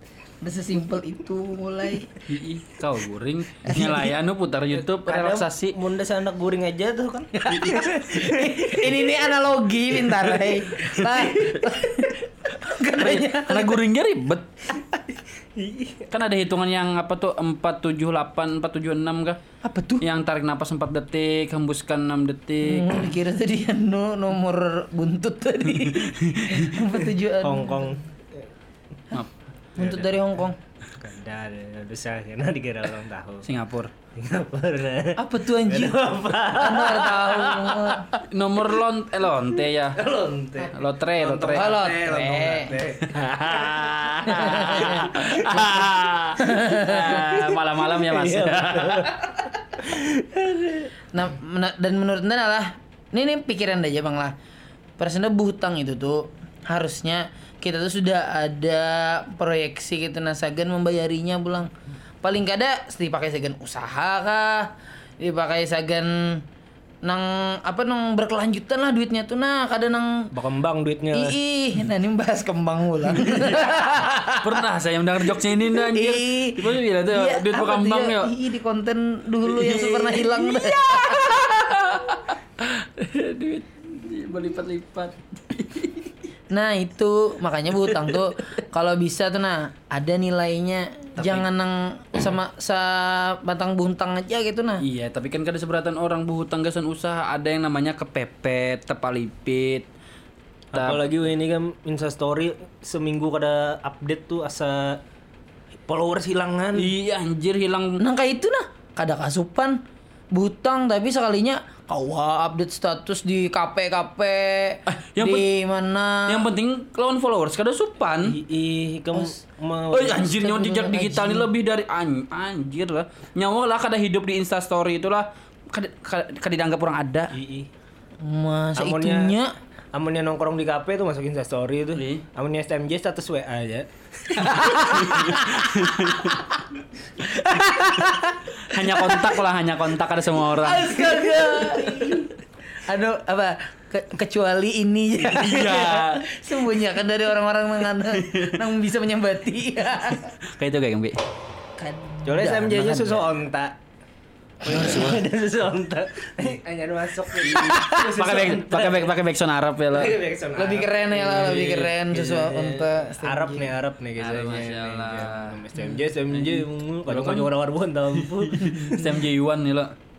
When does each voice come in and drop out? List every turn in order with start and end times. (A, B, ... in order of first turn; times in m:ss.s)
0:00.4-0:02.2 A
0:02.3-0:05.8 B
0:03.6-0:04.1 A
0:04.9-0:09.1 C
0:07.3-0:13.8 A
0:10.1-0:12.1 C
0:13.0-0:14.5 B
0:15.5-0:16.1 C
0:16.1-0:19.4 B
0:19.6-0:20.0 A
0:20.0-0:23.1 B
0:22.6-0:27.9 A
0:26.0-0:26.8 B
0:27.4-0:28.0 C
0:29.8-0:30.1 C
0:29.8-0:30.6 A
0:31.0-0:33.4 C
0:33.4-0:33.9 B
0:34.1-0:38.0 C
0:35.2-0:38.1 A
0:38.2-0:40.0 B
0:39.9-0:45.6 C
0:40.7-0:41.8 B
0:41.5-0:42.7 A
0:43.1-0:49.2 B
0:44.2-0:45.6 A
0:46.4-0:47.3 A
0:47.9-0:49.2 C
0:49.8-0:50.9 C
0:51.1-0:54.4 A
0:55.0-1:01.7 A
1:02.2-1:06.4 A
1:07.0-1:10.3 A
1:10.3-1:11.4 C
1:11.1-1:14.6 A
1:14.4-1:18.3 B
1:15.7-1:21.7 A
1:19.5-1:26.1 B
1:26.5-1:34.8 A
1:27.9-1:28.2 B
1:31.2-1:31.4 B
1:34.8-1:39.9 B
1:40.7-1:41.0 B
1:40.7-1:45.0 C
1:45.9-1:46.9 C
1:46.8-1:48.0 B
1:48.0-1:56.5 A
1:54.9-1:55.5 B
1:56.3-1:58.4 B
1:58.2-2:00.3 C
1:59.1-1:59.4 A
1:59.9-2:07.3 B
2:00.1-2:01.5 A
2:07.3-2:07.7 C
2:08.2-2:09.5 A
2:08.8-2:09.4 C
2:09.9-2:15.3 C
2:12.0-2:12.2 B
2:14.4-2:15.7 A
2:14.4-2:16.4 B
2:16.3-2:16.6 A
2:17.2-2:19.4 A
2:17.5-2:21.3 B
2:20.4-2:22.3 A
2:22.8-2:30.4 A
2:25.2-2:26.2 B
2:28.1-2:28.6 B
2:30.4-2:31.2 B
2:31.8-2:33.2 A
2:32.2-2:33.8 C
2:34.6-2:39.2 C
2:34.7-2:35.2 B
2:37.4-2:40.1 B
2:39.9-2:49.2 C
2:40.6-2:43.7 A
2:44.2-2:45.6 B
2:46.3-2:47.5 B
2:48.2-2:49.9 B